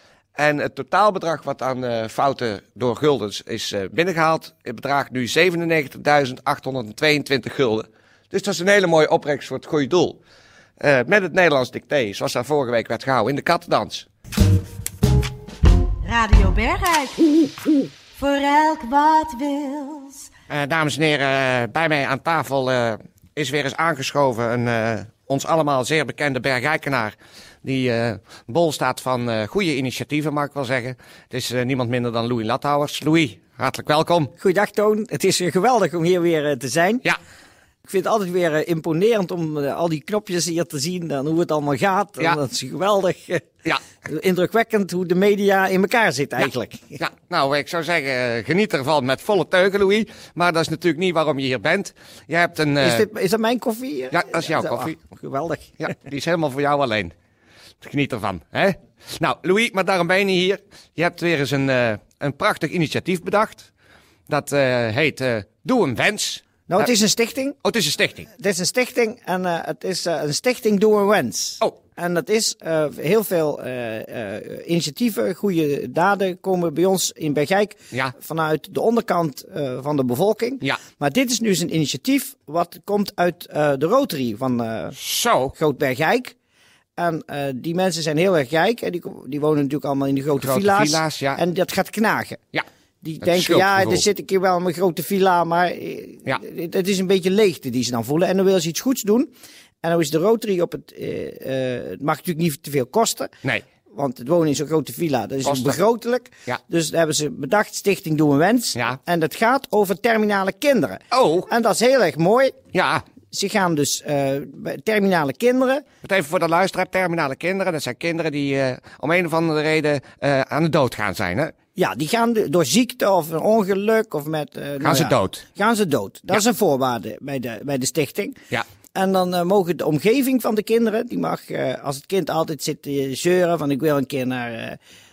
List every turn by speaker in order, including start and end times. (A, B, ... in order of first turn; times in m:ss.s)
0:00.4-0:10.2 A
0:10.8-0:14.1 A
0:16.0-0:17.5 B
0:18.2-0:20.3 B
0:20.5-0:34.3 A
0:34.4-0:37.1 C
0:37.8-0:43.4 C
0:44.0-0:47.0 C
0:47.0-0:53.0 A
0:52.8-0:55.8 C
0:54.1-0:54.9 A
0:55.8-0:57.1 A
0:57.8-1:03.7 A
1:04.3-1:06.9 A
1:06.7-1:07.6 C
1:07.6-1:08.3 A
1:08.3-1:25.0 C
1:25.0-1:25.5 A
1:25.5-1:26.3 C
1:27.0-1:32.4 C
1:30.4-1:31.4 A
1:33.0-1:39.3 C
1:33.2-1:34.0 A
1:39.8-1:43.3 C
1:43.9-1:52.6 C
1:45.4-1:45.8 A
1:51.1-1:51.5 A
1:52.7-1:53.0 A
1:53.3-1:55.8 C
1:56.0-2:01.5 A
2:01.7-2:08.4 C
2:04.8-2:05.4 A
2:08.9-2:14.8 C